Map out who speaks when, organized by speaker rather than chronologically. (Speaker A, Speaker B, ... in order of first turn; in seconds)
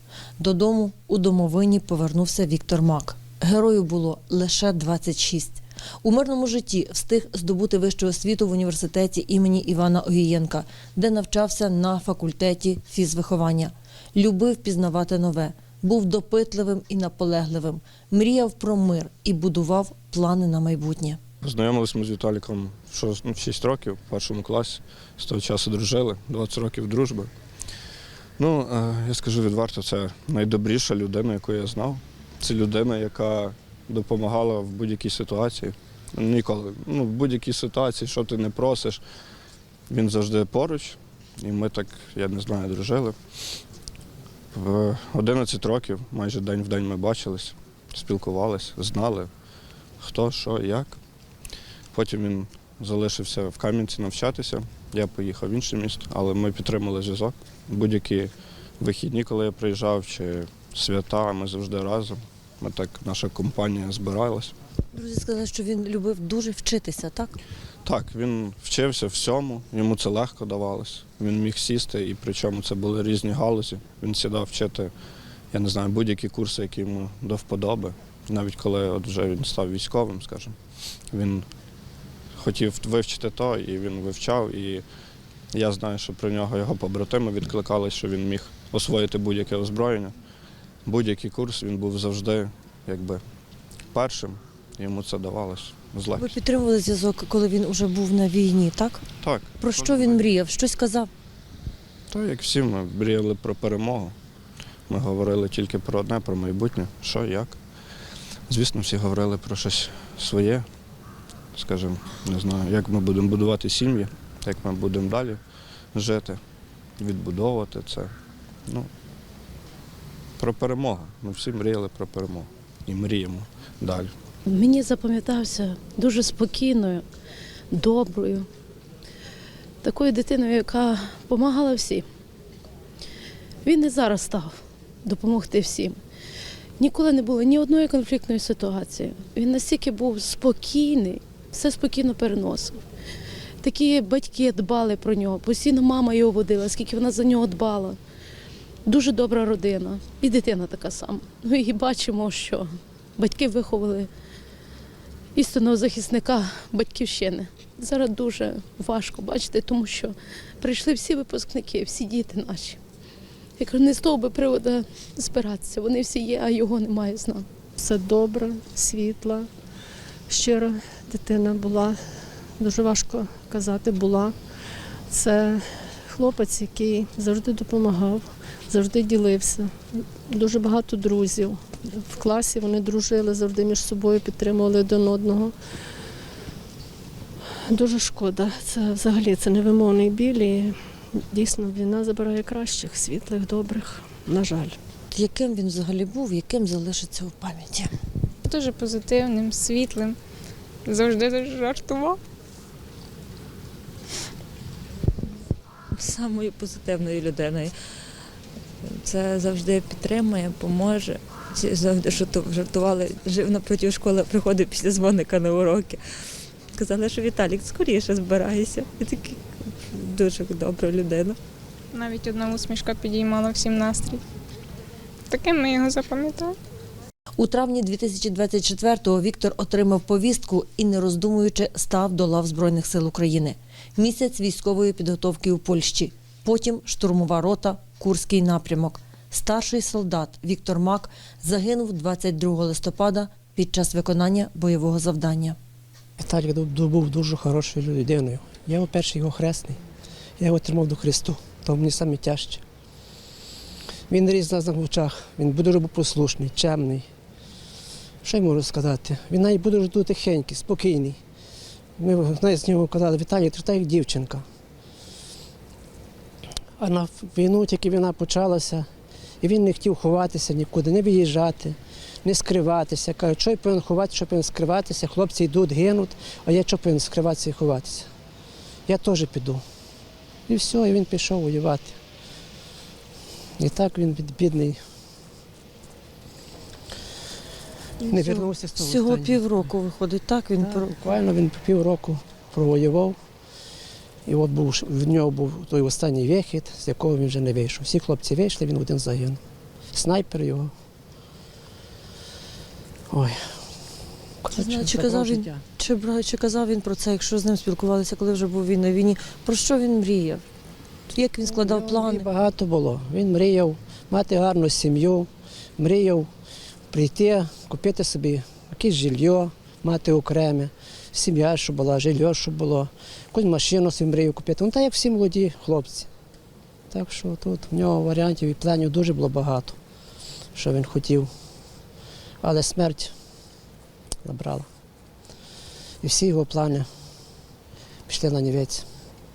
Speaker A: 0.4-21.2, 64.9-67.4, 96.2-99.0, 99.6-101.1, 195.1-197.9, 227.4-245.6, 288.0-290.9, 304.5-310.4, 311.1-312.3
Speaker B: 21.4-27.3, 28.4-39.0, 39.9-43.6, 44.5-49.3, 50.0-51.0, 51.9-64.5, 67.8-74.9, 75.5-80.5, 81.1-81.5, 82.3-84.8, 85.5-90.1, 90.8-93.2, 93.9-96.4, 99.2-100.2, 102.1-104.1, 104.9-107.6, 108.5-110.7, 111.5-115.4, 115.9-116.4, 117.0-118.1, 120.4-124.1
Speaker C: 124.5-127.0, 127.7-128.4, 129.8-132.0, 133.6-134.5, 135.0-136.0, 136.8-142.8, 143.6-148.0, 148.8-154.1, 155.3-162.8, 163.6-167.4
Speaker D: 167.8-169.5, 170.3-172.0, 172.6-174.3, 175.1-185.5, 187.6-194.8
Speaker E: 198.4-200.2, 200.8-202.2, 221.9-224.2, 225.3-226.5
Speaker F: 205.9-207.7, 208.9-216.0, 216.7-221.4
Speaker G: 246.2-249.8, 250.4-252.6, 254.1-257.1, 258.2-261.2, 262.0-264.4, 266.8-268.9, 269.4-278.1, 278.9-279.6, 280.5-282.0, 283.6-284.8, 288.1-289.4, 290.6-293.2, 294.2-299.4, 299.9-300.7, 303.1-303.6, 304.4-305.6, 311.4-316.3, 316.9-326.1, 326.9-329.8, 330.5-331.3, 332.4-333.1, 334.2-334.7, 336.0-336.9, 338.1-338.8